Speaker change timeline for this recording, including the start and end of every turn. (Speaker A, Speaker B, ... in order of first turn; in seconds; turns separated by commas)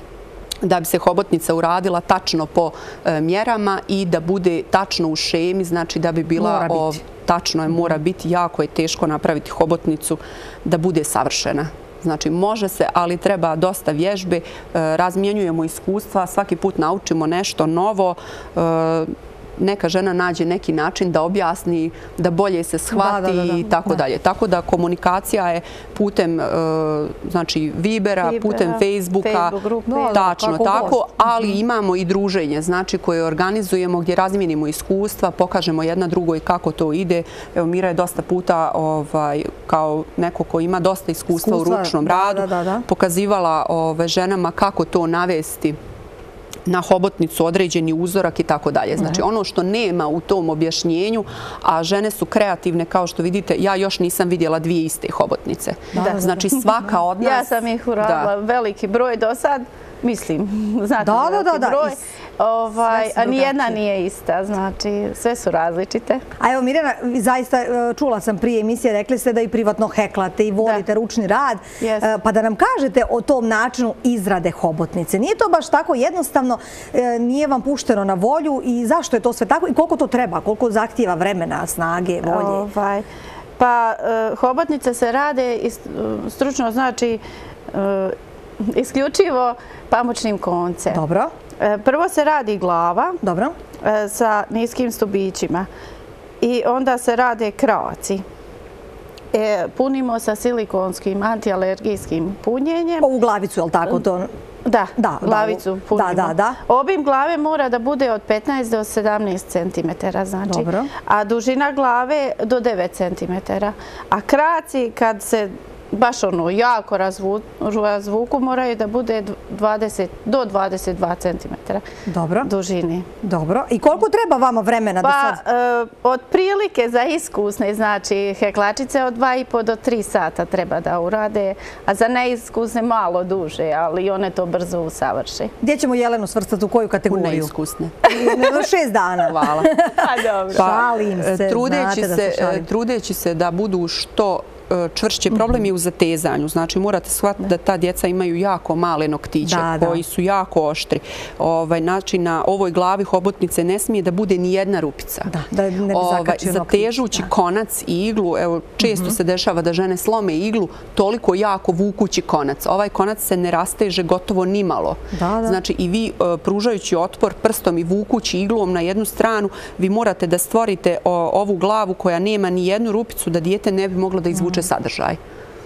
Speaker A: 0.6-29.6, Speaker B: 6.4-7.0, Speaker B: 22.9-24.0, Speaker C: 28.2-30.2, Speaker B: 29.9-31.0, Speaker A: 30.1-45.8, Speaker B: 41.3-42.9, Speaker A: 46.7-58.3, Speaker B: 55.9-56.6, Speaker C: 56.0-56.6, Speaker C: 57.2-66.2, Speaker B: 61.0-62.0, Speaker B: 62.9-63.8, Speaker B: 66.4-82.7, Speaker C: 71.8-72.1, Speaker C: 82.2-83.1, Speaker C: 83.6-91.0, Speaker B: 90.9-91.3, Speaker C: 91.6-93.2, Speaker B: 93.2-93.6, Speaker C: 93.8-95.7, Speaker C: 96.4-98.2, Speaker C: 99.3-103.1, Speaker B: 103.0-104.3, Speaker C: 104.7-121.8, Speaker B: 105.0-106.6, Speaker B: 110.5-110.9, Speaker B: 122.1-122.5, Speaker C: 122.4-123.1, Speaker B: 123.2-125.4, Speaker C: 125.0-135.5, Speaker B: 135.6-137.5, Speaker A: 137.1-138.0, Speaker C: 138.1-138.4, Speaker B: 138.1-142.7, Speaker A: 139.2-139.8, Speaker C: 139.9-140.7, Speaker A: 140.5-155.4, Speaker B: 149.4-150.0, Speaker B: 155.3-157.3, Speaker A: 155.9-175.2, Speaker B: 158.9-159.1, Speaker B: 165.1-165.6